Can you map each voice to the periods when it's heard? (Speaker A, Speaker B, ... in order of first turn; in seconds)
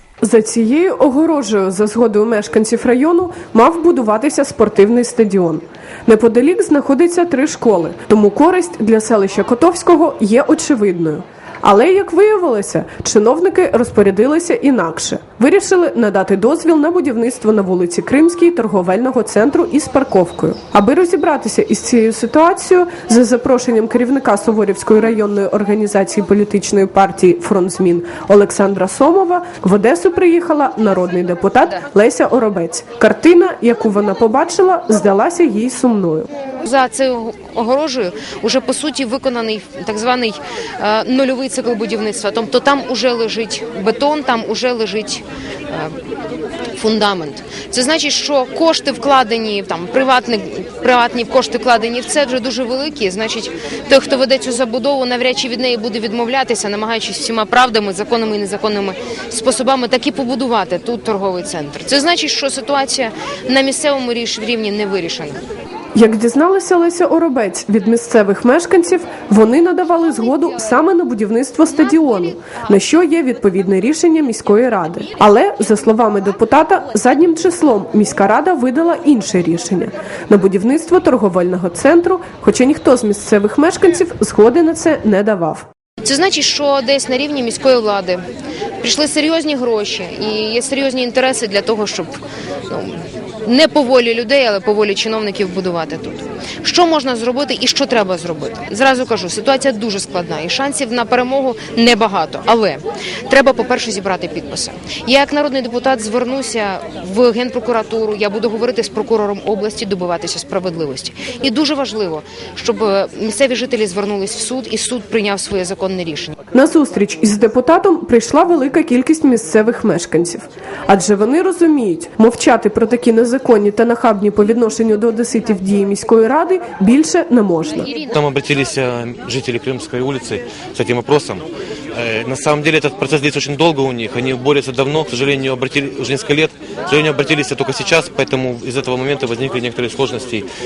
Speaker A: 0.2-36.3, 66.0-85.7, 116.5-127.9
Speaker B: 36.6-46.0, 46.8-65.4, 86.0-88.2, 88.8-116.4
Speaker C: 128.1-140.5